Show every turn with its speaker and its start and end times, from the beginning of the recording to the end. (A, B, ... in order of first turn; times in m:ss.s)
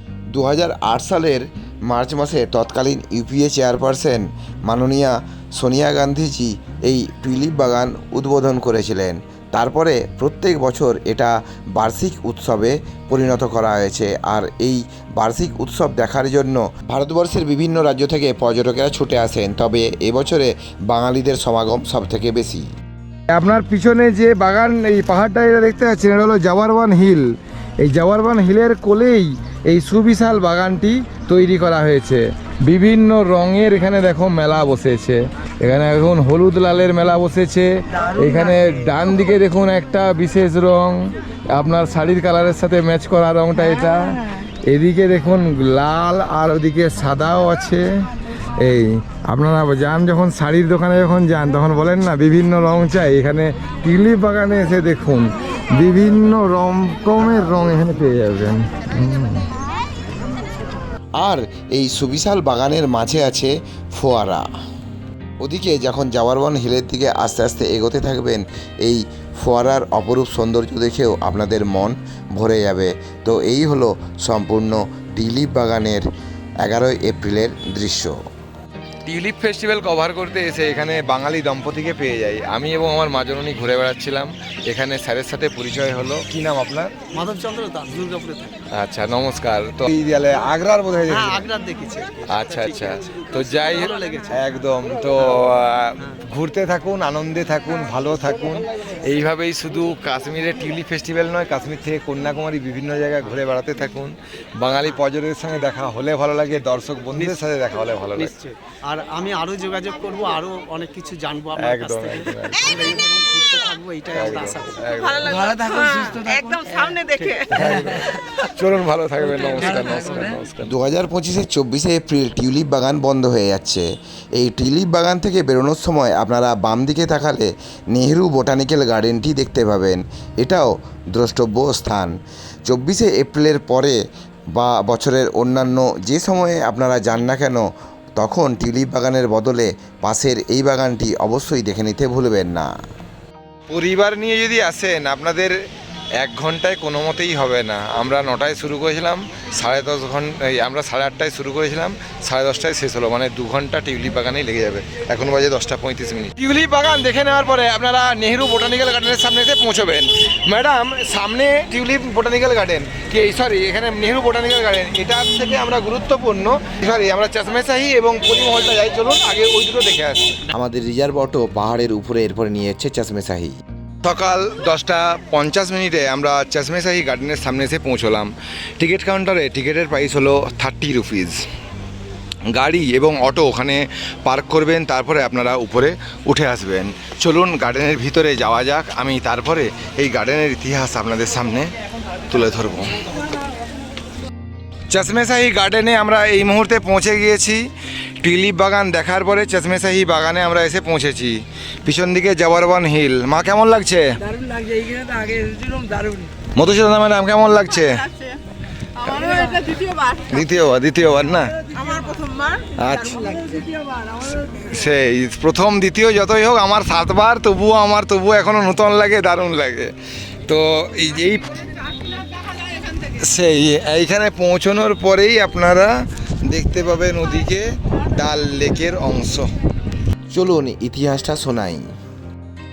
0:00.3-0:22.7 A
0:23.3-0:27.3 B
0:27.8-0:59.5 B
1:01.2-1:04.5 A
1:05.4-1:16.0 A
1:16.6-1:18.2 A
1:19.1-1:27.0 B
1:27.1-1:28.6 C
1:28.7-1:31.5 B
1:31.1-1:34.5 C
1:32.3-1:48.3 B
1:48.2-1:58.0 C
1:51.6-1:52.8 B
1:54.1-1:55.5 B
1:55.0-1:58.2 D
1:57.5-2:00.7 B
1:59.5-2:00.3 D
1:59.6-2:00.3 C
2:00.7-2:12.1 A
2:12.7-2:14.0 A
2:14.5-2:17.6 A
2:18.2-2:22.7 A
2:23.7-2:25.6 B
2:26.2-2:50.4 B
2:50.5-2:53.6 A
2:54.0-3:01.4 B
3:02.5-3:11.7 B
3:12.3-3:13.1 B
3:14.9-3:17.7 B
3:18.2-3:24.2 B
3:24.2-3:26.3 D
3:26.5-3:28.1 B
3:27.8-3:28.4 D
3:29.0-3:30.5 D
3:29.1-3:29.4 B
3:30.3-3:31.6 B
3:31.5-3:34.8 D
3:32.8-3:33.3 B
3:34.6-3:39.9 B
3:40.5-3:41.6 B
3:43.1-3:49.5 B
3:50.3-3:51.9 A